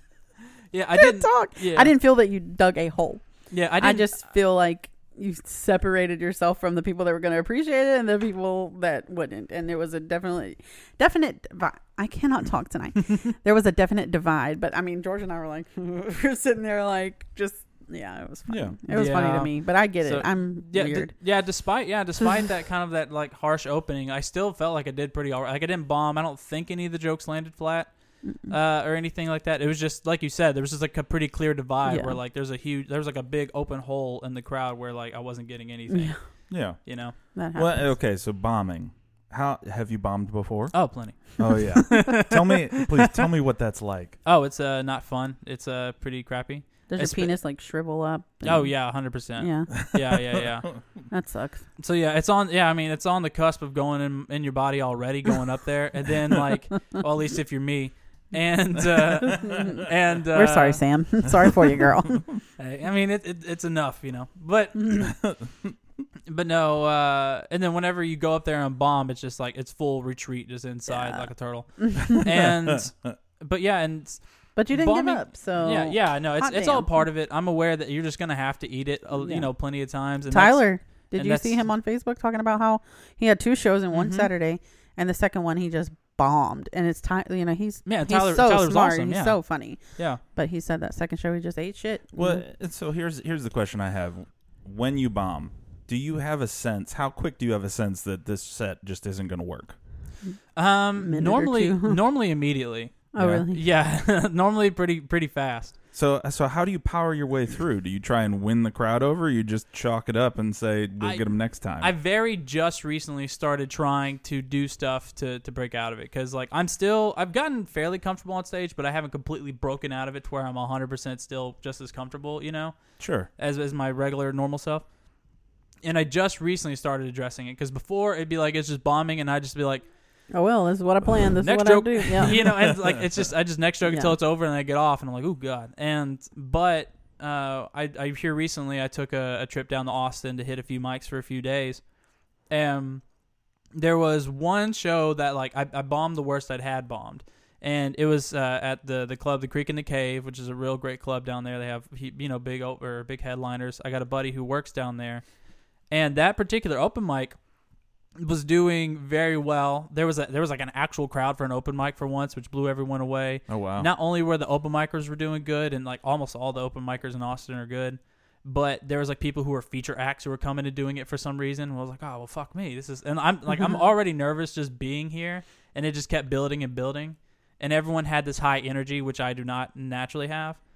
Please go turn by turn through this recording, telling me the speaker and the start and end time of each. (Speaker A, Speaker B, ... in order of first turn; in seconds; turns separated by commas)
Speaker A: 0.7-1.9, Speaker B: 0.9-3.3, Speaker A: 3.5-4.1, Speaker B: 3.8-21.1, Speaker C: 18.5-18.8, Speaker A: 18.9-37.2, Speaker B: 28.2-28.5, Speaker B: 31.9-32.2, Speaker B: 35.9-36.2, Speaker C: 36.5-44.2, Speaker B: 37.3-37.9, Speaker A: 40.7-43.1, Speaker A: 44.2-47.4, Speaker B: 46.9-49.7, Speaker A: 48.4-50.8, Speaker B: 51.1-51.6, Speaker A: 51.8-60.8, Speaker B: 59.5-62.3, Speaker A: 62.6-65.2, Speaker C: 65.2-65.7, Speaker A: 66.3-81.6, Speaker B: 70.9-72.2, Speaker B: 74.6-77.1, Speaker B: 79.2-79.5, Speaker B: 80.3-92.4, Speaker A: 83.9-84.3, Speaker A: 87.9-90.2, Speaker C: 92.2-99.8, Speaker A: 100.5-105.8, Speaker B: 101.0-102.0, Speaker B: 103.1-103.6, Speaker C: 103.2-103.5, Speaker C: 105.9-111.9, Speaker A: 111.0-124.9, Speaker C: 123.0-123.3, Speaker A: 125.8-129.9, Speaker B: 130.3-132.4, Speaker A: 131.4-141.9, Speaker B: 133.9-134.2, Speaker A: 142.5-143.1, Speaker A: 143.8-155.3, Speaker A: 155.9-157.4, Speaker A: 158.2-180.6, Speaker C: 163.5-163.9